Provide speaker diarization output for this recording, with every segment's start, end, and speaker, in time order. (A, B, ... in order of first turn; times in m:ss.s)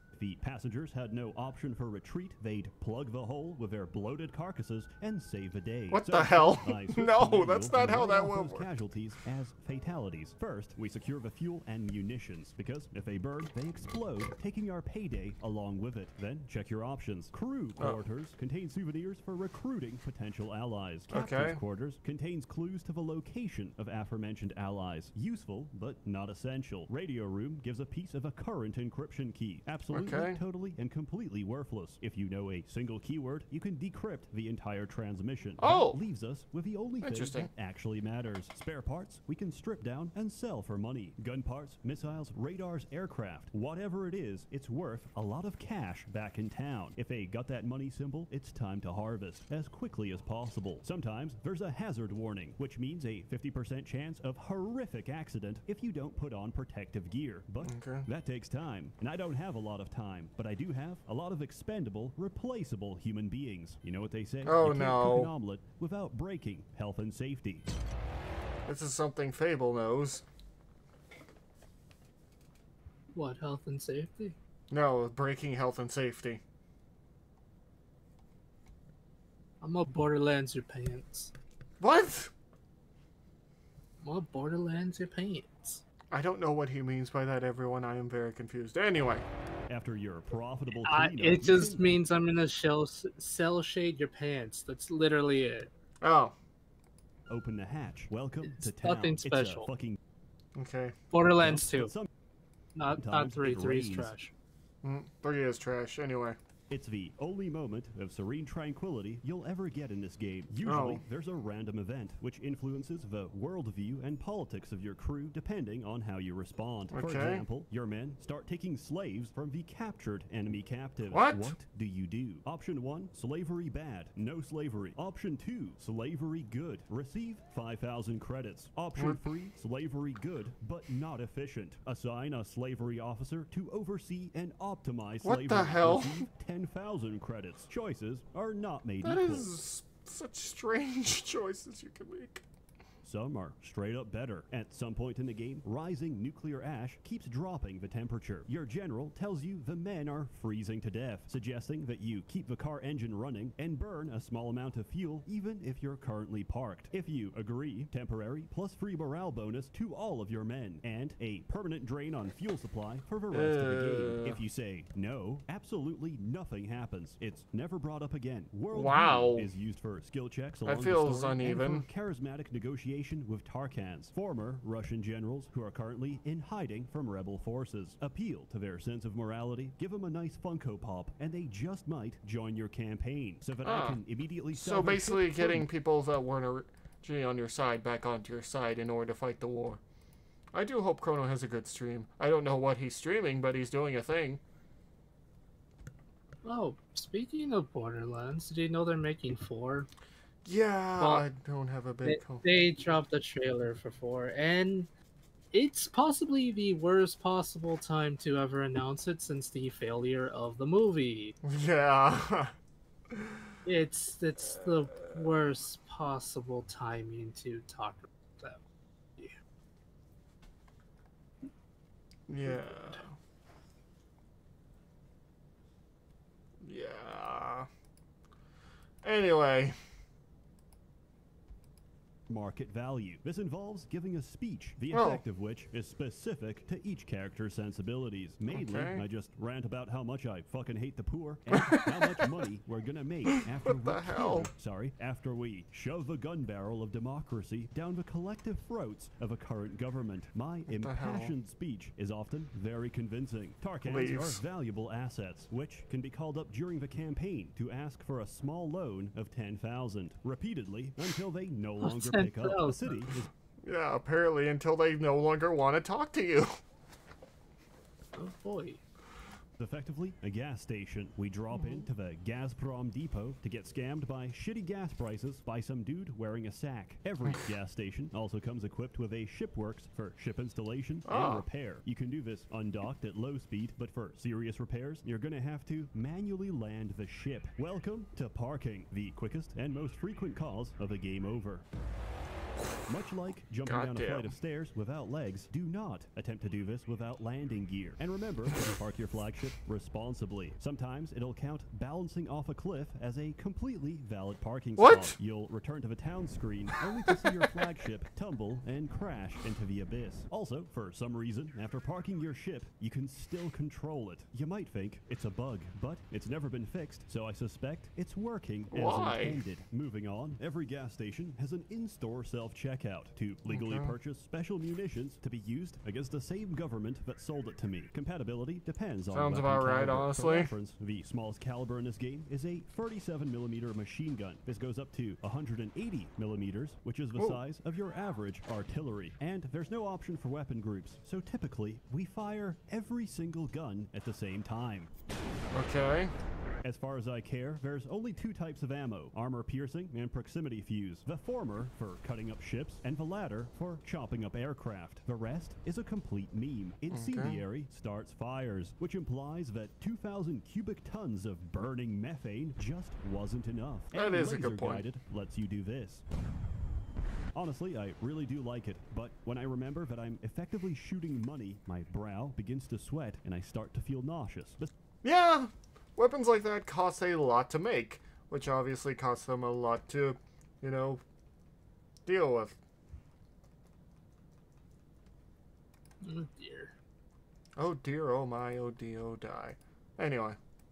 0:00.1-1:07.6 A
0:05.9-0:08.7 B
0:21.1-0:21.6 B
0:29.9-0:30.4 B
0:35.6-0:36.0 B
0:37.0-0:37.5 B
0:57.6-0:58.1 B
1:04.4-1:05.3 B
1:08.7-1:10.2 B
1:13.1-1:14.4 C
1:14.7-1:16.4 B
1:19.6-1:21.3 C
1:21.8-1:22.3 B
1:24.0-1:25.8 C
1:26.1-1:29.2 B
1:29.7-1:32.0 A
1:30.8-1:35.7 C
1:36.0-1:36.3 B
1:37.3-1:40.0 A
1:38.4-1:39.7 C
1:40.6-1:40.9 B
1:41.1-1:41.9 C
1:41.4-1:42.1 A
1:42.7-1:44.3 C
1:42.9-1:44.1 A
1:44.8-1:46.4 B
1:46.7-2:19.5 A
1:50.6-1:51.0 B
1:56.9-1:57.4 B
2:01.1-2:01.5 B
2:15.2-2:16.3 B
2:19.0-2:22.4 B
2:23.0-3:05.6 A
2:43.3-2:44.4 B
2:48.7-2:49.5 B
2:50.6-2:51.8 B
3:03.6-3:04.0 B
3:04.5-3:09.8 B
3:10.5-3:14.4 B
3:16.4-3:19.9 C
3:20.4-3:22.4 B
3:21.0-3:21.2 C
3:22.0-3:24.9 C
3:25.5-3:31.3 C
3:31.4-3:32.5 B
3:33.6-3:38.6 C
3:42.3-3:43.1 B
3:42.5-3:43.0 C
3:46.6-3:47.7 B
3:49.0-3:49.8 B
3:52.3-4:23.3 A
3:54.9-3:55.2 B
3:58.5-3:59.0 B
4:01.5-4:02.3 B
4:03.6-4:04.5 B
4:10.8-4:11.3 B
4:13.8-4:14.4 B
4:21.8-4:23.0 C
4:23.6-4:26.5 B
4:28.2-4:28.8 C
4:29.6-4:51.6 A
4:31.5-4:31.8 C
4:41.0-4:41.4 B
4:52.8-5:44.9 A
4:53.6-4:54.3 B
5:04.8-5:05.1 B
5:18.7-5:19.4 B
5:23.5-5:23.9 B
5:29.1-5:30.5 B
5:45.5-5:46.1 B
5:46.6-6:06.0 A
5:56.9-5:57.4 B
6:03.9-6:04.8 B
6:07.3-6:14.7 A
6:15.0-6:21.0 B
6:22.0-6:22.6 B
6:26.0-6:26.7 C
6:27.6-6:30.4 B